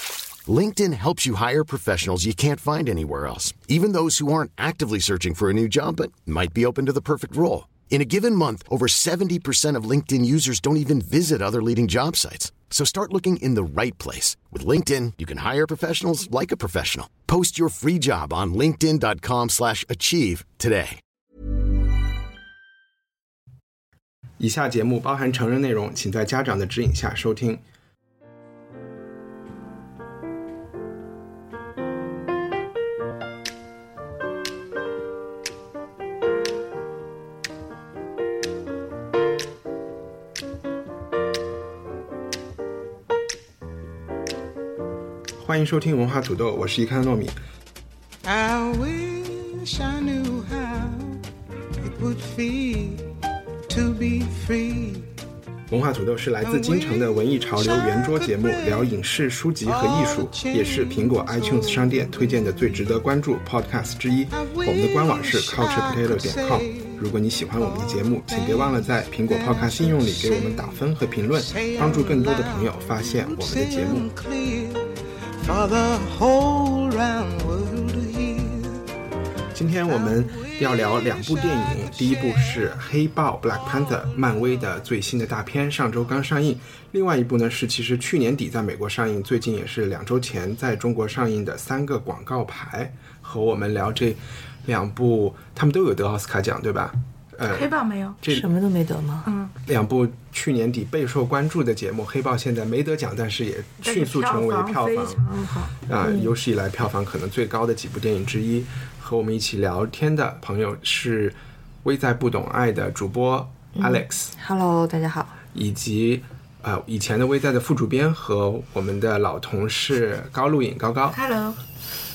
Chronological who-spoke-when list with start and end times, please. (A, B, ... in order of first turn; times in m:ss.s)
0:00.4-0:21.0 A
0:24.4-0:27.6 B
0:45.4-0:47.4 B
0:48.2-0:51.2 C
0:51.8-0:53.0 C
0:53.7-0:55.1 C
0:55.7-1:14.1 B
0:56.4-0:58.9 C
0:59.6-1:02.9 C
1:04.3-1:07.0 C
1:07.6-1:10.8 C
1:11.3-1:18.8 C
1:19.5-1:38.5 B
1:19.8-1:22.8 C
1:23.6-1:24.7 C
1:37.5-1:38.2 D
1:38.3-1:39.3 E
1:39.2-1:39.5 D
1:39.6-1:45.2 B
1:43.8-1:45.8 D
1:45.8-1:54.3 B
1:46.0-1:46.3 E
1:53.8-1:55.4 E
1:55.5-2:01.2 B
2:01.1-2:01.6 D